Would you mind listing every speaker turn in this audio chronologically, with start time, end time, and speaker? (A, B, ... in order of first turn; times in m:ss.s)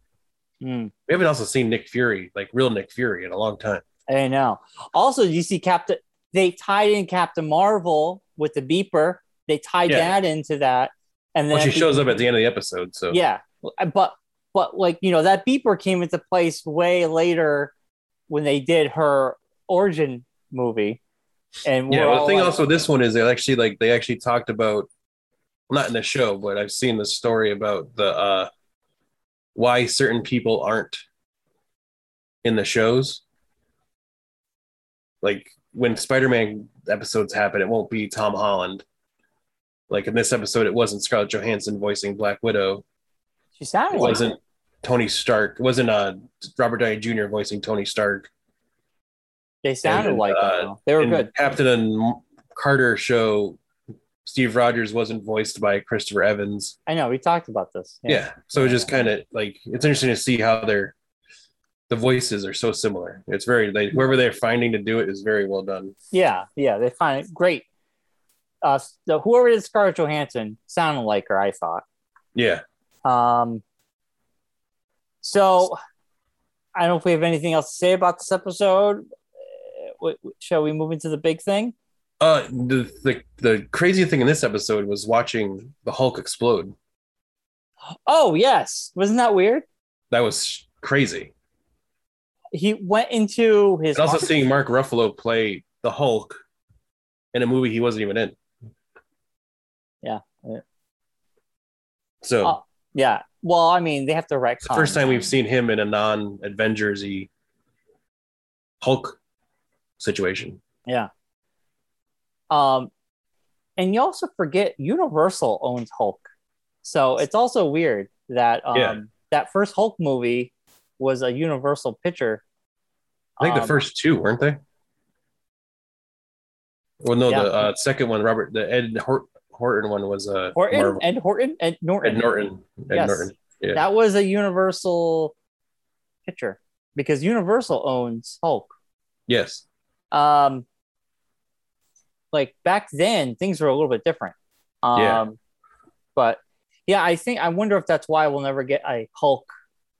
0:00.6-0:00.9 A
0:01.1-0:03.8 B
0:04.1-0:12.0 A
0:09.9-0:10.1 B
0:11.5-0:13.2 B
0:13.1-0:17.7 A
0:18.3-0:21.0 A
0:21.6-0:22.6 A
0:21.9-0:24.9 B
0:25.7-0:28.5 B
0:29.5-0:31.0 B
0:32.4-0:33.2 B
0:35.2-0:38.8 B
0:39.9-0:42.8 B
0:43.6-0:44.2 A
0:43.9-0:48.3 B
0:49.6-0:51.3 A
0:49.8-0:53.6 B
0:54.2-0:56.8 B
0:56.9-0:58.9 A
0:58.1-1:00.9 B
1:01.9-1:05.9 B
1:06.1-1:07.6 A
1:08.6-1:11.8 A
1:12.3-1:12.6 B
1:13.0-1:13.6 A
1:15.2-1:15.8 A
1:16.7-1:19.0 A
1:19.8-1:21.7 A
1:22.2-1:26.7 B
1:28.1-1:29.6 A
1:30.1-1:31.3 B
1:32.5-1:34.3 A
1:33.9-1:36.4 B
1:37.3-1:38.4 B
1:40.0-1:40.6 A
1:42.2-1:42.6 B
1:42.4-1:45.2 A
1:44.6-1:47.3 B
1:48.8-1:49.2 B
1:50.0-1:50.6 B
1:52.5-1:52.9 A
1:53.8-1:56.2 A
1:56.8-2:02.4 A
2:03.4-2:03.8 A
2:03.4-2:04.6 B
2:07.0-2:11.0 B
2:10.5-2:12.2 A
2:12.0-2:13.8 B
2:12.9-2:15.3 A
2:16.2-2:18.7 A
2:19.3-2:19.6 B
2:20.1-2:20.6 A
2:22.3-2:25.4 A
2:24.9-2:25.2 B
2:26.1-2:29.5 A